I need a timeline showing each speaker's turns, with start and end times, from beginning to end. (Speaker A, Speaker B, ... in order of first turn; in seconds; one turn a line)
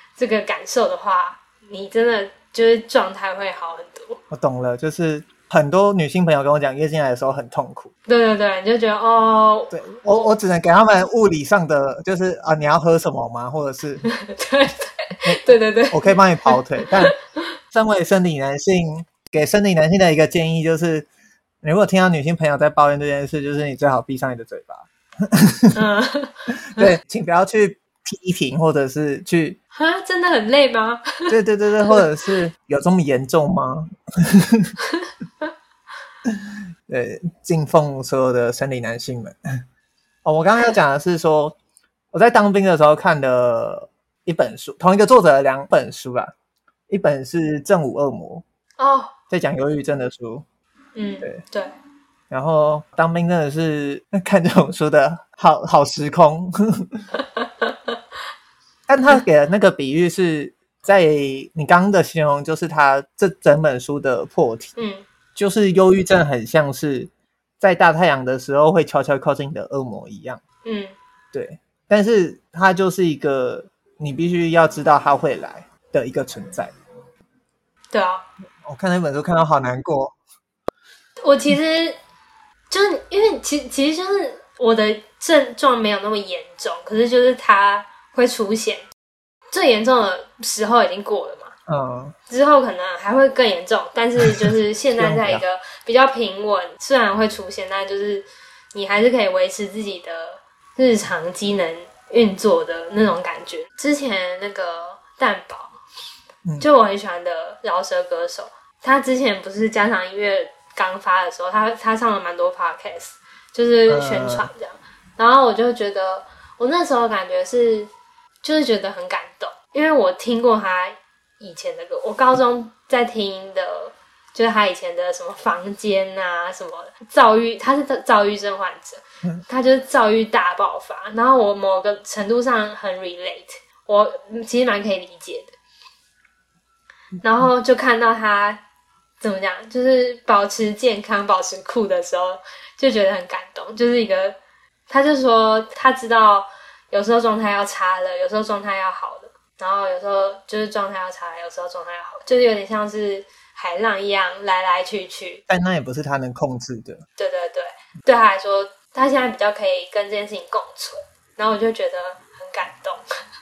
Speaker A: 0.2-4.2
Speaker B: 4.3-7.9
Speaker A: 8.1-9.7
Speaker B: 9.7-14.1
Speaker A: 14.2-17.1
Speaker B: 15.2-17.1
Speaker B: 17.7-21.1
Speaker B: 21.6-25.8
Speaker A: 25.7-26.9
Speaker B: 26.7-29.6
Speaker A: 29.8-31.3
Speaker B: 31.3-34.8
Speaker B: 36.3-39.4
Speaker B: 40.2-41.6
Speaker B: 42.1-46.3
Speaker B: 46.9-48.4
Speaker A: 48.8-49.1
Speaker B: 49.3-50.5
Speaker A: 51.0-51.7
Speaker B: 52.3-57.0
Speaker A: 57.2-57.7
Speaker B: 58.9-64.7
Speaker A: 64.8-65.0
Speaker B: 65.4-70.4
Speaker A: 70.7-71.0
Speaker B: 71.3-76.8
Speaker A: 77.9-78.2
Speaker B: 78.6-80.2
Speaker A: 81.2-82.0
Speaker A: 82.7-88.8
Speaker A: 89.5-91.5
Speaker B: 91.7-92.1
Speaker A: 92.3-105.7
Speaker B: 95.0-95.4
Speaker A: 106.6-117.9
Speaker B: 113.9-114.5
Speaker A: 118.4-135.6
Speaker A: 137.2-138.6
Speaker A: 139.2-144.4
Speaker A: 144.9-155.4
Speaker B: 155.5-157.0
Speaker A: 157.2-163.0